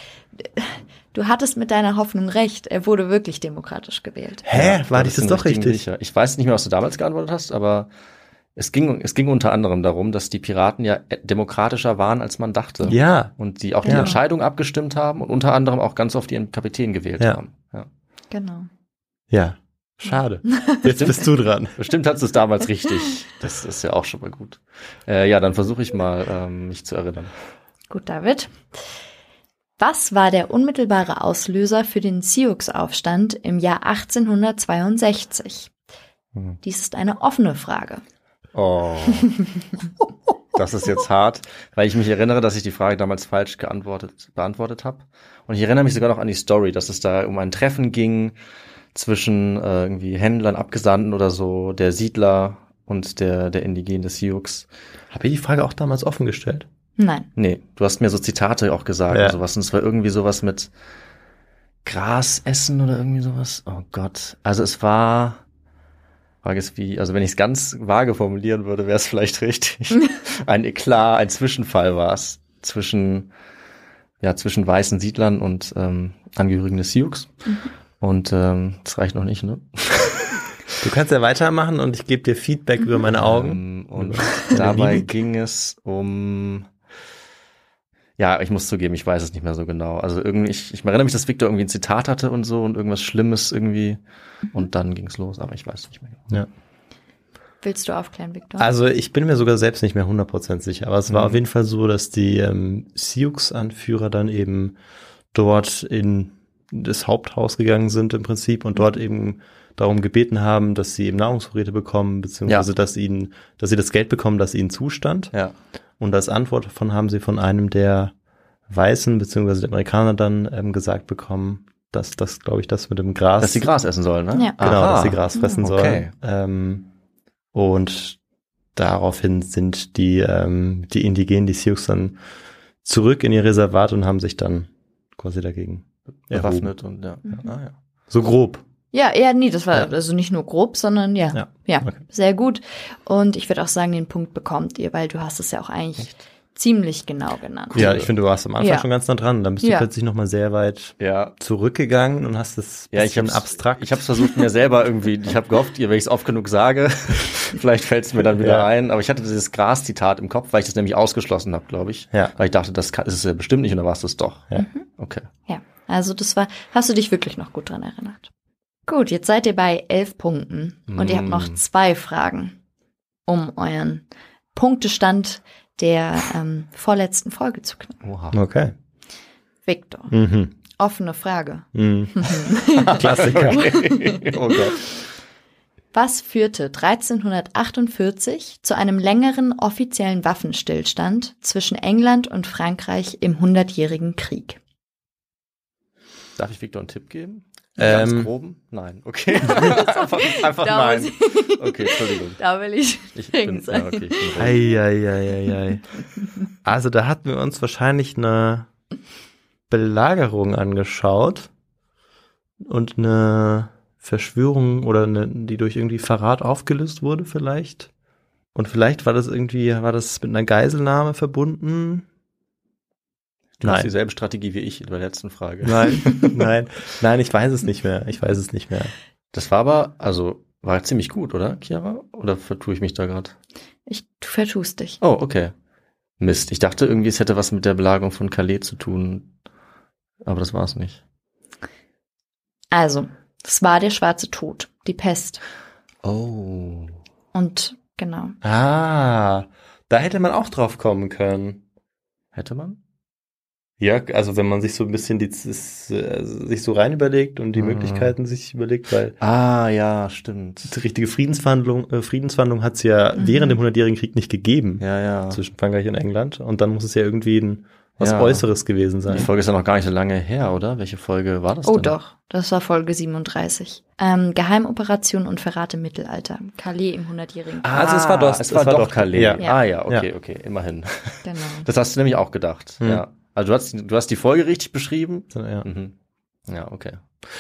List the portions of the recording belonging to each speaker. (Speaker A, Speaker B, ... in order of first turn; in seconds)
Speaker A: 0.3-4.5, 13.8-14.2, 18.3-18.7, 20.5-20.8, 27.9-28.6, 29.8-35.7, 36.6-38.0, 57.0-57.3, 97.6-98.7, 138.9-148.0, 148.6-148.9, 149.6-149.9, 164.6-164.9, 165.5-168.3, 168.9-172.6, 173.3-178.0, 179.7-180.2, 180.7-184.3, 185.9-194.6, 199.4-204.6, 233.9-235.0, 242.7-245.4, 247.3-248.4, 263.2-263.6, 271.7-277.9, 281.2-281.7
Speaker B: 4.4-5.8, 12.8-14.2, 19.3-21.8, 55.1-56.7, 59.1-59.4, 80.8-85.1, 98.6-104.8, 105.3-115.3, 116.0-118.1, 118.7-123.7, 124.6-126.9, 127.5-128.2, 128.8-132.2, 132.8-136.7, 138.1-138.6, 141.3-142.0, 147.8-154.1, 158.4-158.7, 178.3-178.7, 180.1-180.5, 181.8-183.8, 197.8-198.3, 204.4-205.9, 206.6-208.7, 209.7-211.5, 212.6-217.9, 218.5-222.1, 223.6-223.9, 225.6-228.9, 248.4-251.6, 253.8-259.2, 260.7-269.3, 277.7-280.1, 285.3-285.7
Speaker C: 4.5-7.9, 8.6-17.9, 20.9-21.2, 21.8-27.3, 38.5-39.3, 40.5-48.4, 48.9-54.7, 57.4-60.7, 61.9-65.4, 66.4-73.3, 74.2-77.3, 78.0-80.4, 83.1-86.7, 88.2-94.0, 94.5-96.2, 101.1-101.4, 123.4-126.1, 136.3-137.8, 147.7-148.1, 151.0-151.4, 152.9-165.3, 170.9-171.6, 178.0-178.4, 182.9-185.0, 196.4-202.4, 203.2-204.6, 223.6-226.4, 229.3-233.3, 235.0-235.5, 236.2-239.3, 240.2-241.0, 246.0-247.0, 252.3-252.8, 257.6-258.1, 259.2-260.7, 264.8-265.4, 268.0-268.5, 269.1-271.9, 277.6-285.9, 286.5-287.0